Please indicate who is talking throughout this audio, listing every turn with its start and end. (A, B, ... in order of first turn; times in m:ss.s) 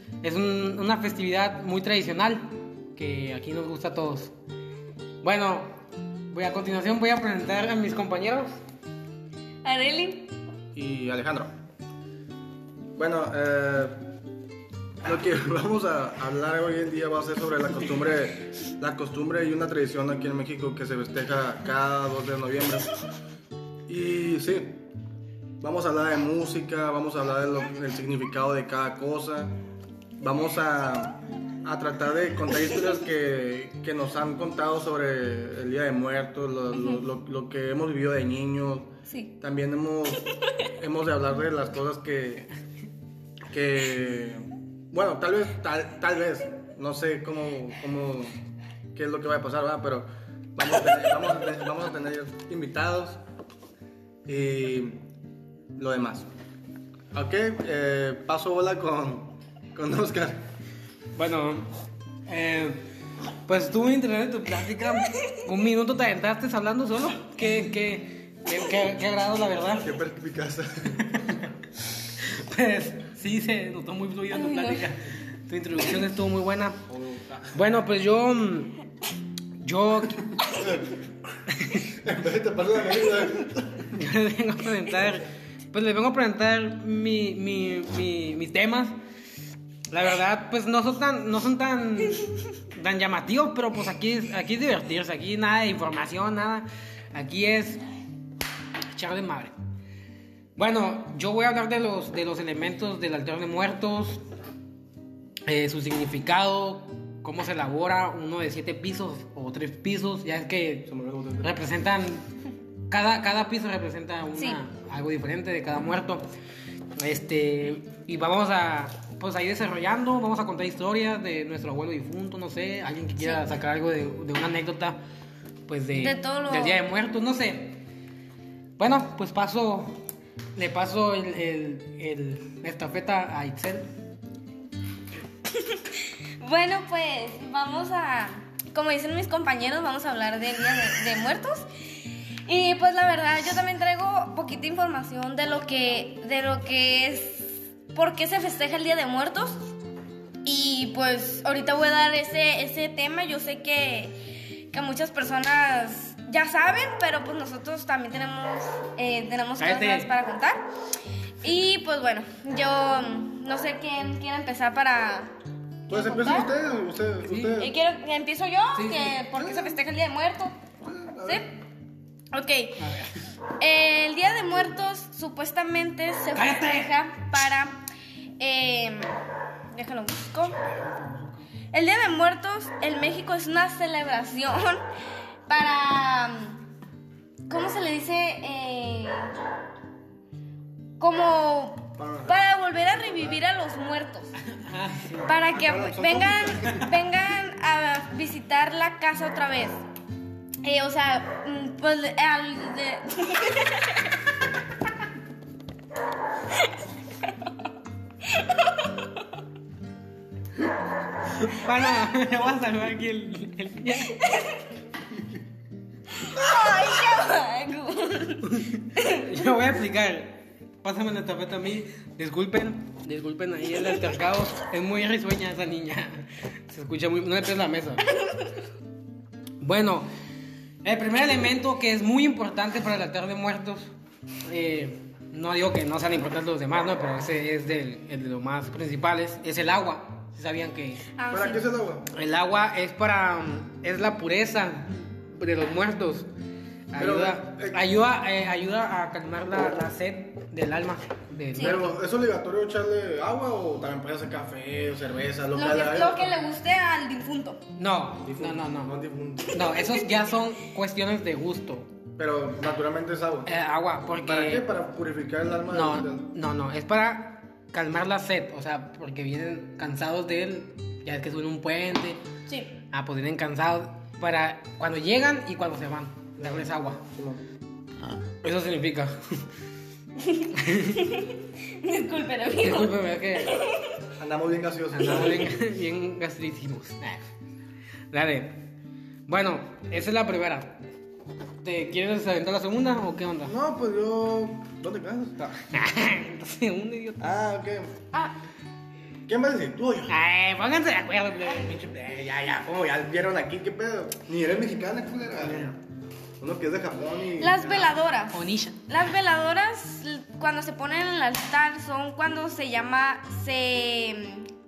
0:00.2-0:04.3 A
0:05.2-0:05.7 A
0:06.3-0:08.5 A
0:09.6-0:10.3 B
0:10.7-0:11.5 C
0:13.0-0:14.0 C
0:15.0-0:22.9 C
0:23.9-0:24.8 C
0:25.6-0:29.5 C
0:30.2-0:42.5 C
0:43.5-0:48.4 C
0:48.9-0:53.2 C
0:54.2-0:55.0 C
0:55.8-0:56.3 C
0:57.1-1:00.4 C
1:01.2-1:01.7 A
1:02.3-1:02.8 A
1:03.4-1:09.9 A
1:05.0-1:05.3 B
1:09.8-1:11.1 C
1:10.9-1:16.8 A
1:14.3-1:14.8 B
1:16.9-1:17.6 C
1:17.5-1:18.7 A
1:19.6-1:20.4 A
1:20.4-1:20.9 C
1:21.5-1:21.8 A
1:21.8-1:23.9 C
1:23.9-1:29.0 A
1:29.9-1:37.8 A
1:38.9-1:39.5 A
1:40.6-1:44.2 A
1:45.4-1:50.9 A
1:50.9-1:51.5 C
1:51.4-1:52.2 A
1:52.9-1:56.2 A
1:57.0-2:05.0 A
2:03.2-2:03.5 B
2:05.7-2:07.8 A
2:06.0-2:06.8 B
2:08.8-2:10.0 A
2:10.6-2:13.9 A
2:15.5-2:21.7 B
2:22.4-2:29.6 B
2:30.4-2:34.2 B
2:34.7-2:40.6 B
2:39.6-2:40.1 A
2:41.4-2:45.3 B
2:45.9-2:46.5 B
2:45.9-2:47.8 C
2:47.3-2:47.5 A
2:47.6-2:50.6 B
2:48.7-2:49.2 A
2:49.3-2:49.8 C
2:50.8-2:51.4 C
2:51.2-2:51.5 B
2:52.3-2:52.8 B
2:52.8-2:53.1 A
2:53.6-2:57.8 B
2:56.3-2:56.9 A
2:58.4-2:59.2 B
2:59.7-3:00.6 B
3:00.5-3:01.4 A
3:01.7-3:04.8 B
3:05.5-3:06.6 B
3:07.5-3:09.3 B
3:11.0-3:14.3 B
3:12.0-3:12.4 C
3:13.0-3:13.4 C
3:14.5-3:15.3 A
3:15.2-3:19.8 B
3:15.4-3:16.9 C
3:20.6-3:24.0 B
3:28.3-3:28.6 B
3:31.3-3:34.2 A
3:34.1-3:34.6 B
3:36.2-3:39.2 B
3:38.4-3:48.1 A
3:49.6-3:50.1 A
3:50.8-3:53.9 A
3:54.4-4:01.0 A
4:01.2-4:01.6 B
4:01.3-4:02.1 C
4:02.1-4:06.3 A
4:06.9-4:11.9 A
4:07.0-4:07.9 C
4:11.6-4:16.3 C
4:15.5-4:17.6 B
4:17.8-4:18.9 A
4:18.2-4:19.7 C
4:19.5-4:21.9 A
4:22.2-4:23.5 C
4:23.4-4:24.6 A
4:24.2-4:26.3 C
4:25.7-4:32.2 A
4:32.5-4:32.7 B
4:32.9-4:37.0 A
4:36.4-4:37.4 C
4:38.4-4:39.2 A
4:40.2-4:43.8 B
4:40.6-4:41.0 A
4:42.6-4:43.6 A
4:44.2-4:45.5 C
4:44.9-4:47.2 A
4:48.1-4:48.6 A
4:49.3-4:50.8 A
4:51.6-4:53.5 A
4:53.4-4:55.6 C
4:55.6-4:57.3 A
4:57.2-4:58.0 C
4:59.3-5:00.2 C
5:00.1-5:01.8 A
5:01.7-5:05.7 C
5:05.4-5:05.7 A
5:06.4-5:08.0 C
5:07.4-5:14.5 B
5:08.3-5:08.8 A